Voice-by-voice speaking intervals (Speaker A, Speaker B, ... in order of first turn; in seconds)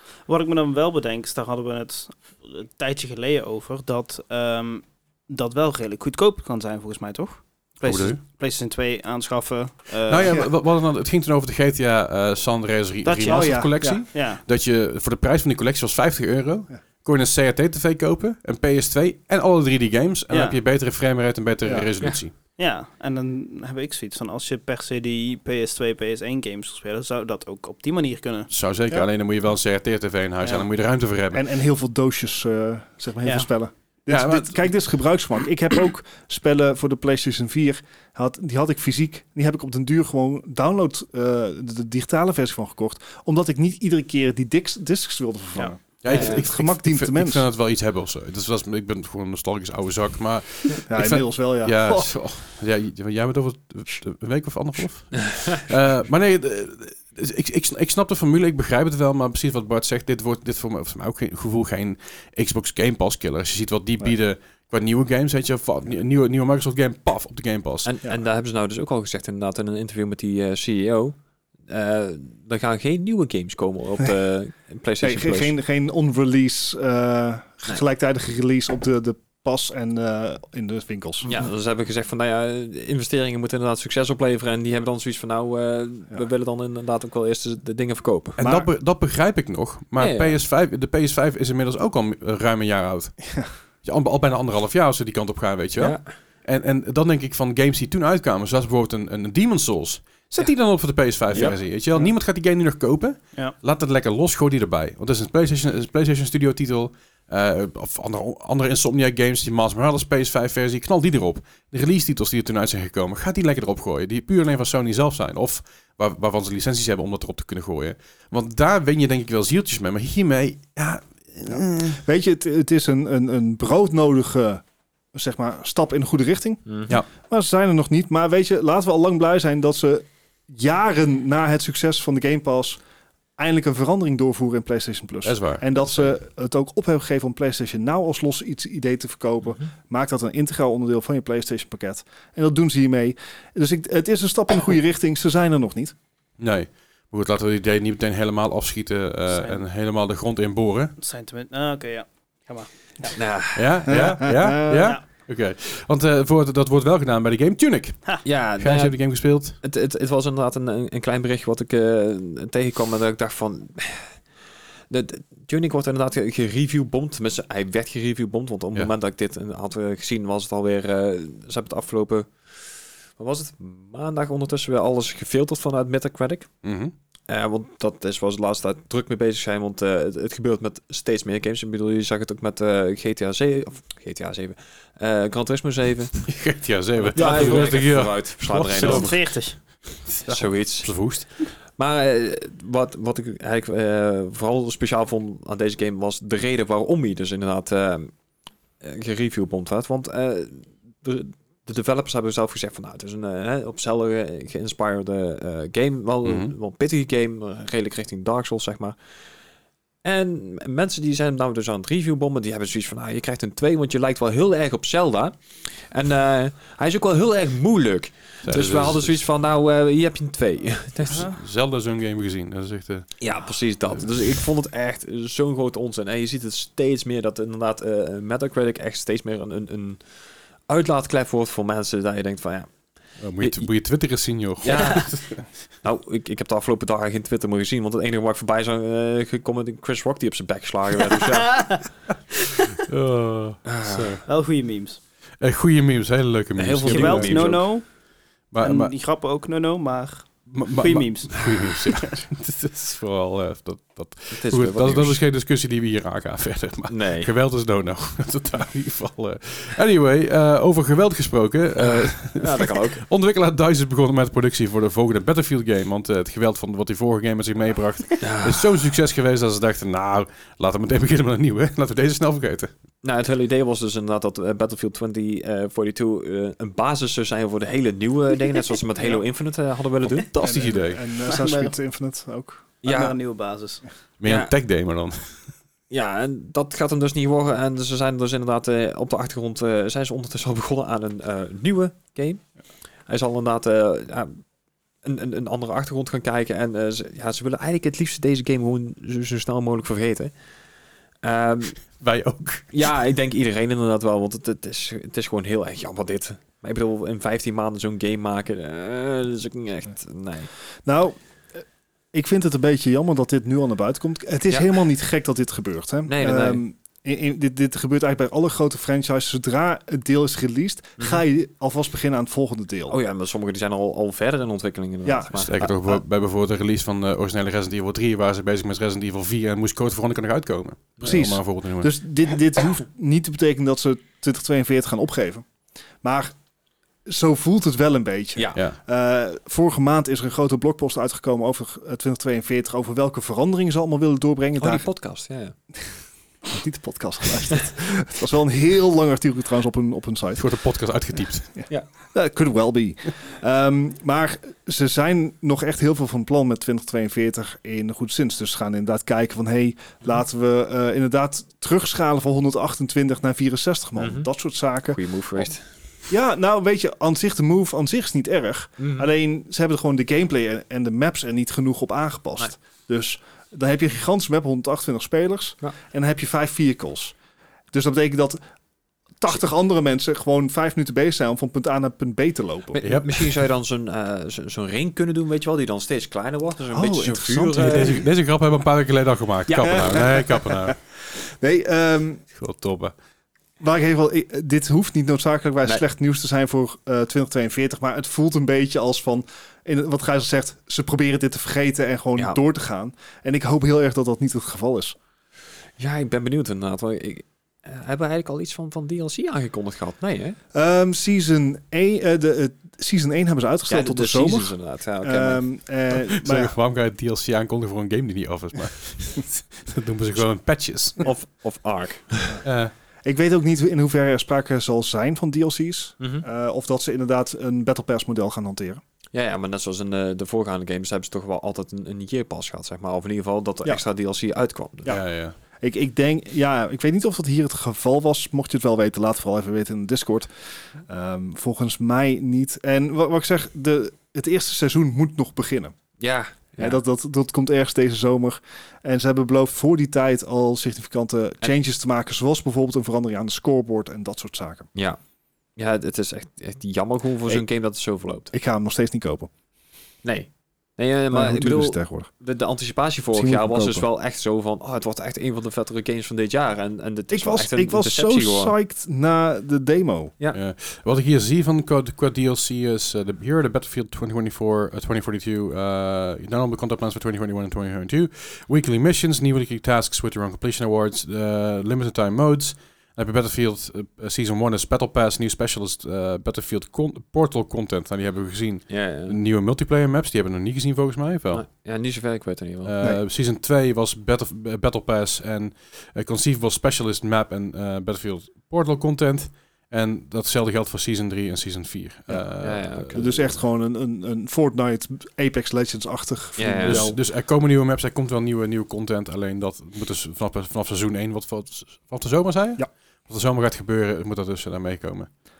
Speaker A: 0.3-10.4, 13.0-14.4, 20.3-20.6, 22.6-28.5, 149.3-149.6, 151.0-153.2, 187.2-187.8, 188.8-189.6, 221.1-221.4, 234.7-235.1, 241.5-241.8, 244.3-245.0, 246.8-247.9, 248.6-251.5, 281.3-281.8, 282.8-283.8
Speaker B: 7.8-8.2, 10.1-22.3, 28.5-31.4, 34.1-34.6, 46.0-67.9, 88.4-122.0, 135.2-136.0, 146.4-150.9, 153.6-159.6, 176.6-176.9, 186.2-191.3, 206.2-206.5, 218.4-219.2, 221.1-223.1, 233.2-235.5, 242.8-244.2, 245.4-247.7, 248.5-248.9, 250.5-272.7, 280.3-281.0, 284.2-285.4, 302.0-302.7, 325.4-331.9, 350.4-351.6, 382.8-383.3, 387.6-390.8, 392.4-392.9, 416.1-421.1, 422.4-422.7, 434.9-435.4, 470.3-491.5, 492.6-503.1, 506.6-515.1
Speaker C: 13.2-14.0, 31.3-47.5, 50.9-52.1, 75.0-81.3, 88.4-88.7, 121.5-124.6, 125.1-132.8, 133.4-145.9, 153.9-154.9, 280.4-282.7, 310.9-323.0, 325.1-325.4, 331.0-335.4, 336.0-336.4, 337.1-344.9, 346.5-350.4, 351.6-365.5, 366.1-377.1, 377.7-378.4, 379.2-382.8, 386.7-388.1, 389.7-392.2, 393.6-405.0, 410.5-416.5, 423.1-428.8, 435.6-440.3, 440.8-445.8, 446.6-454.7, 458.3-459.3, 461.1-462.1, 463.1-463.9, 467.1-470.1, 502.9-507.0
Speaker D: 46.1-46.5, 67.9-71.2, 71.7-75.5, 81.2-88.4, 90.0-90.4, 95.8-96.0, 126.7-126.9, 153.2-153.9, 158.2-159.0, 159.6-164.2, 164.9-172.5, 173.2-176.5, 177.3-186.3, 187.0-189.2, 190.3-191.0, 191.8-198.1, 198.8-209.0, 210.0-221.3, 223.2-230.0, 230.7-232.7, 233.4-233.7, 234.6-235.1, 235.8-241.9, 243.7-244.2, 246.6-247.7, 254.3-255.2, 256.9-257.3, 261.8-263.0, 268.2-268.7, 273.0-280.3, 282.8-283.2, 284.2-284.5, 285.9-292.4, 293.1-294.4, 295.0-300.3, 301.2-301.8, 302.7-310.5, 316.1-316.6, 322.9-326.0, 344.6-345.6, 364.0-364.3, 364.9-365.6, 368.8-369.1, 382.8-388.1, 389.5-390.2, 405.8-410.4, 413.7-415.4, 421.0-422.4, 429.1-434.9, 446.0-446.8, 454.7-455.0, 455.6-458.3, 460.0-468.5, 488.7-489.2, 491.3-492.8, 502.4-503.1, 506.4-506.9